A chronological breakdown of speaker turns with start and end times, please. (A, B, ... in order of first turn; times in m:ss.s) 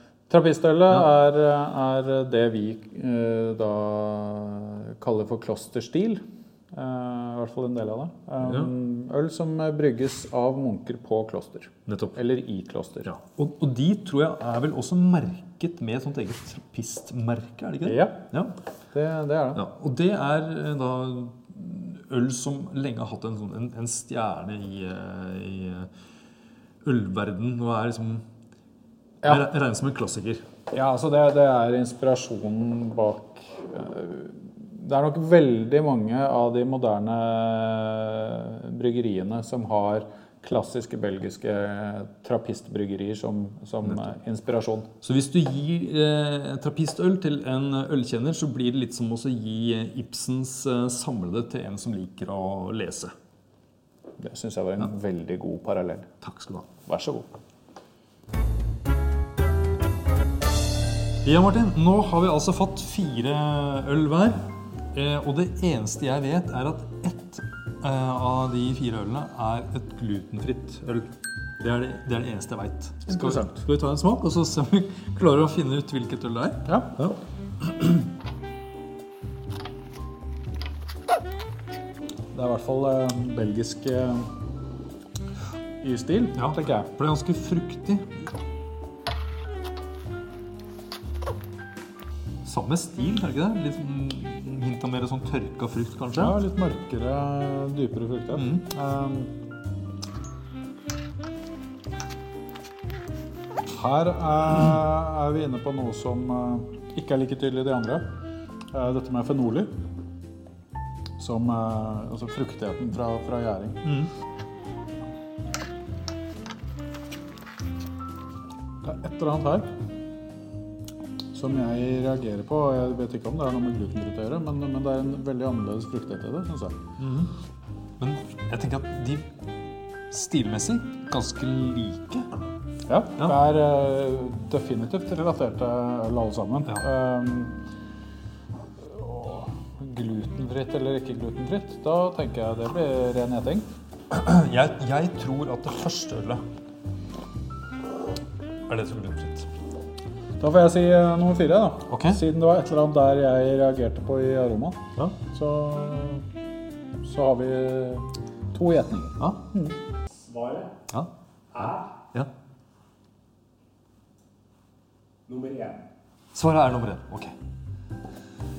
0:00.3-0:13.1 A
0:08.4-0:08.7 B
0:11.9-0:12.2 B
0:13.1-0:18.5 B
0:17.8-0:18.2 A
0:18.9-0:19.6 A
0:19.6-0:25.9 B
0:26.8-0:28.2 B
0:29.2-0:30.4 B
0:30.7-0:44.9 A
0:45.0-0:53.1 B
0:54.2-0:56.1 A
0:56.2-0:56.7 B
0:56.9-0:57.3 A
1:01.2-1:17.9 B
1:13.1-1:13.6 A
1:16.7-1:16.9 A
1:22.3-1:24.3 A
1:25.8-1:26.9 A
1:26.4-1:28.2 B
1:32.4-1:36.4 B
1:36.2-1:39.3 A
1:38.4-1:38.6 B
1:43.7-1:48.1 A
1:48.7-1:49.7 A
1:51.2-1:53.9 A
1:58.8-1:59.7 A
2:01.3-2:06.8 A
2:07.0-2:07.3 B
2:08.0-2:09.3 B
2:10.1-2:12.3 B
2:12.9-2:17.6 A
2:18.8-2:23.6 A
2:24.1-2:26.4 B
2:28.7-2:29.5 B
2:30.4-2:36.2 A
2:31.9-2:32.2 B
2:37.0-2:39.8 A
2:40.9-2:42.3 B
2:46.3-2:47.4 B